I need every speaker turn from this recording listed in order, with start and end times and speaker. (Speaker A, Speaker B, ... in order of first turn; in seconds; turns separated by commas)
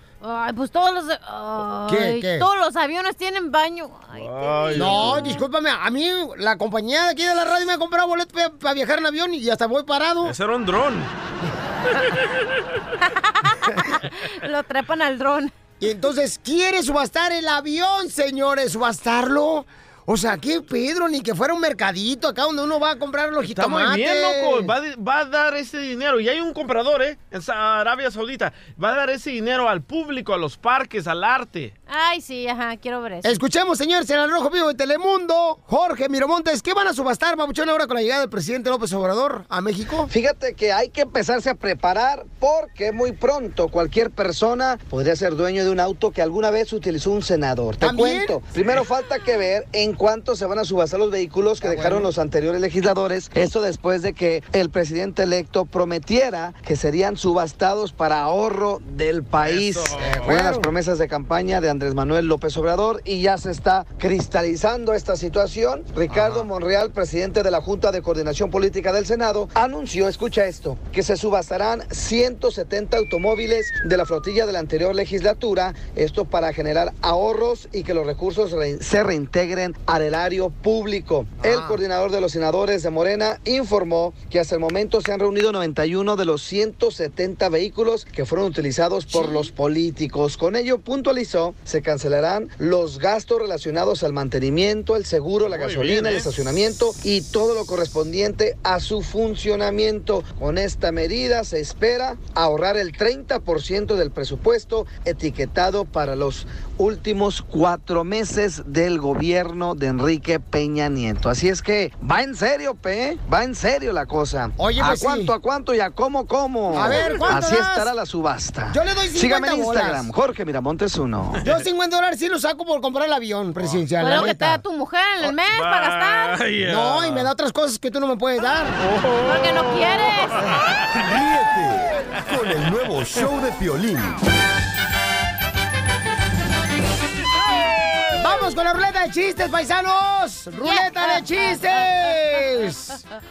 Speaker A: 0.2-5.4, Speaker B: 1.9-2.5, Speaker C: 4.1-5.3, Speaker B: 4.7-10.3, Speaker C: 10.2-11.1, Speaker A: 13.0-15.5, Speaker B: 15.8-24.7, Speaker C: 23.4-31.7, Speaker A: 31.9-33.4, Speaker B: 33.2-40.1, Speaker D: 40.1-121.4, Speaker B: 47.8-48.4, Speaker B: 51.6-52.1, Speaker C: 59.4-60.4, Speaker B: 60.0-60.7, Speaker B: 66.1-66.4, Speaker B: 81.4-81.8, Speaker C: 95.5-96.3, Speaker B: 114.6-115.3, Speaker B: 116.7-117.9, Speaker B: 118.7-120.1, Speaker B: 121.4-124.6, Speaker A: 124.0-126.4, Speaker C: 125.2-127.3, Speaker B: 126.6-128.8, Speaker C: 128.8-130.6, Speaker A: 129.2-130.5, Speaker E: 130.9-134.2, Speaker B: 138.2-143.0, Speaker A: 140.6-141.8